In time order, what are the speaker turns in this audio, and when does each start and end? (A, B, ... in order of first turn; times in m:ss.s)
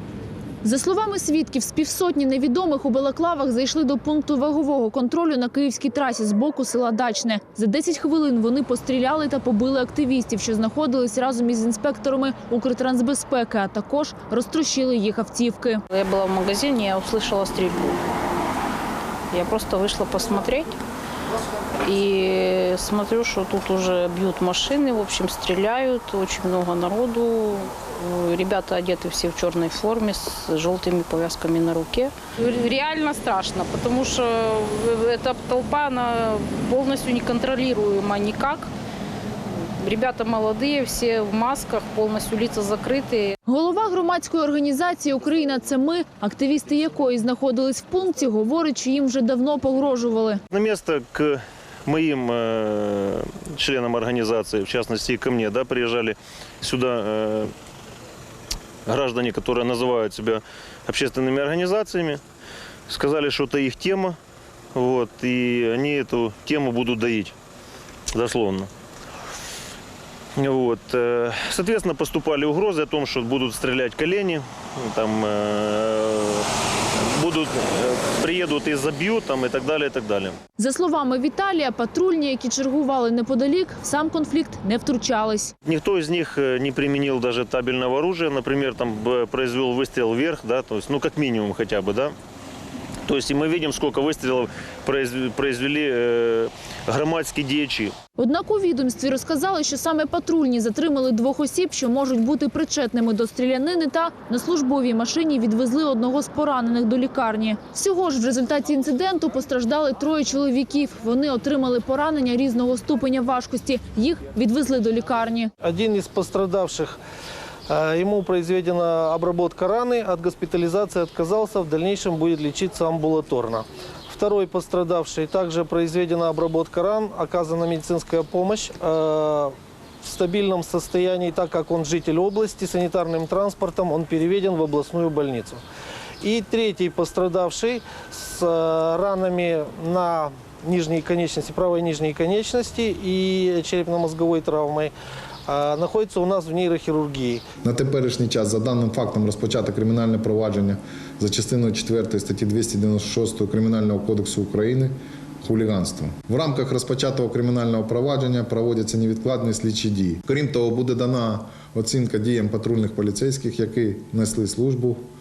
0:00.6-0:15.8 A
0:15.9-0:18.0 B
0:19.3-0:20.8 B
0:21.8-0:38.7 B
0:39.8-0:43.3 B
0:43.4-0:50.4 A
0:50.5-0:57.5 C
0:58.9-1:02.2 C
1:02.9-1:04.2 C
1:04.8-1:07.3 C
1:08.1-1:08.7 C
1:10.4-1:16.4 C
1:17.0-1:20.4 C
1:20.6-1:25.6 A
1:25.6-1:32.1 C
1:33.0-1:37.9 C
1:38.2-1:55.5 A
1:55.6-1:57.0 D
1:57.7-2:15.6 D
2:16.2-2:24.9 D
2:25.5-2:27.4 D
2:27.6-2:45.0 E